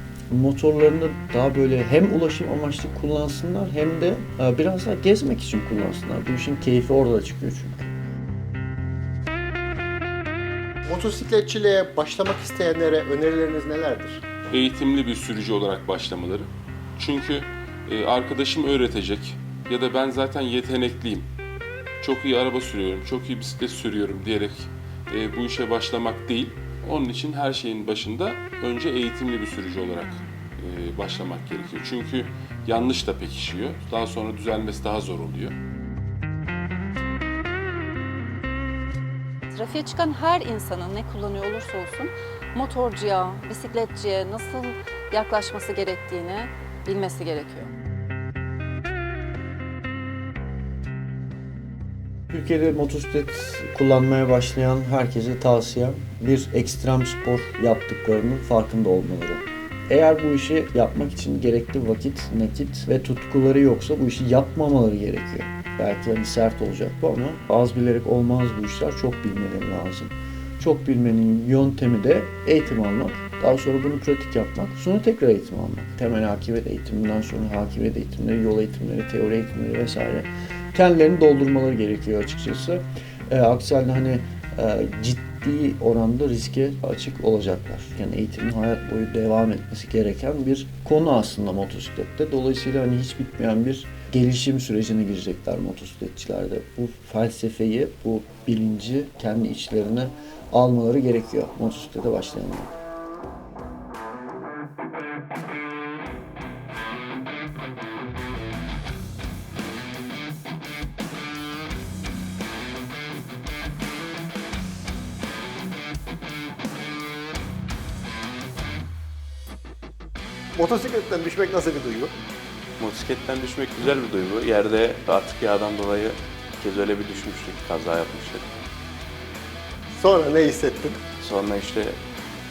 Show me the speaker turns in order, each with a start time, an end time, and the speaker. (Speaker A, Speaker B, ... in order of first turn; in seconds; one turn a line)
Speaker A: 0.3-7.9
Speaker B: 10.9-14.2
Speaker C: 14.5-21.3
Speaker C: 22.0-35.5
Speaker D: 39.5-47.7
Speaker A: 52.3-102.8
Speaker B: 120.6-122.1
Speaker E: 122.8-128.5
Speaker B: 130.0-131.0
Speaker E: 131.2-132.0